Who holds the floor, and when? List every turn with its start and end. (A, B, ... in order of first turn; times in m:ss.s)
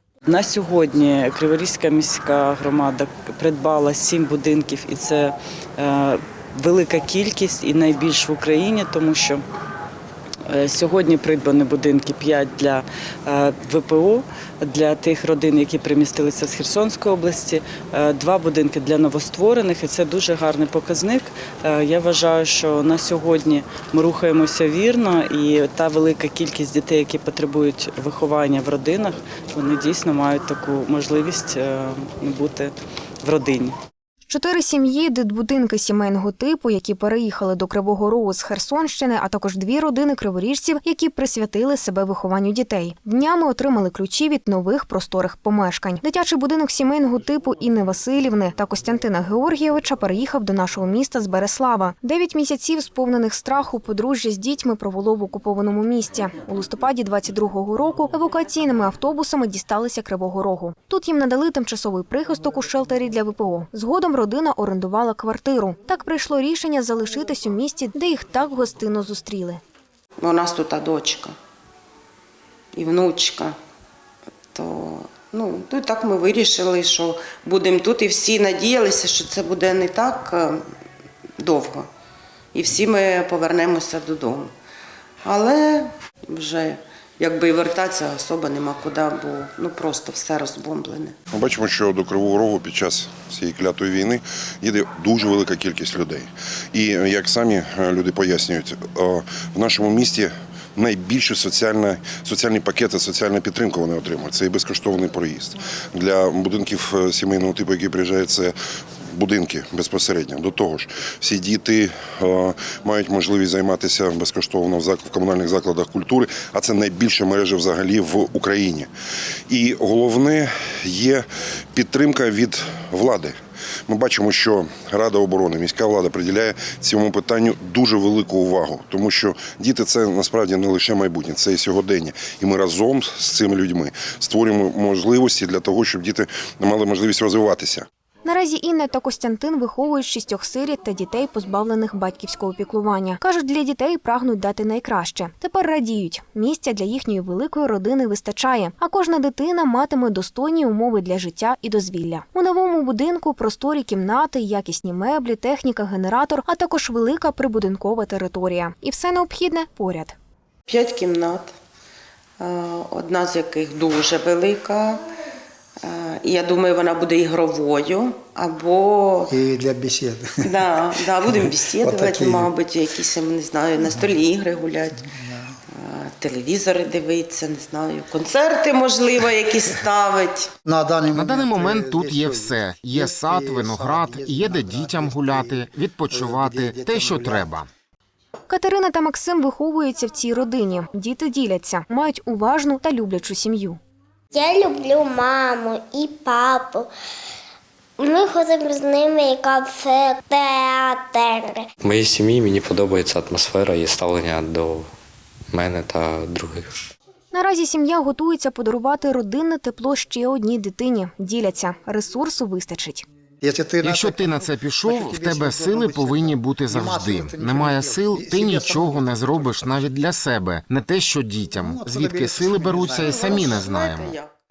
0:00.3-0:09.4 A
0:10.5-0:33.8 A
0:34.3-1:09.6 B
1:10.2-1:11.3 C
1:12.7-1:13.6 C
1:14.5-1:20.6 C
1:21.4-1:21.9 C
1:22.5-1:24.5 C
1:25.2-1:31.2 C
1:31.3-1:48.5 D
1:49.1-1:58.9 D
1:59.5-2:03.3 D
2:03.9-2:17.8 D
2:18.2-2:40.2 B
2:40.7-2:41.5 C
2:42.4-2:45.0 C
2:45.8-2:49.4 C
2:49.3-2:52.5 E
2:50.4-2:55.0 C
2:55.1-2:55.5 E
2:55.7-3:00.5 C
3:00.6-3:07.6 E
3:01.1-3:07.7 F
3:08.5-3:13.8 B
3:14.3-3:16.9 G
3:18.0-3:21.7 G
3:21.8-3:24.9 H
3:25.5-3:26.7 H
3:27.3-3:33.0 B
3:33.4-3:39.5 E
3:33.8-3:44.2 F
3:41.5-3:43.6 E
3:43.1-3:44.3 C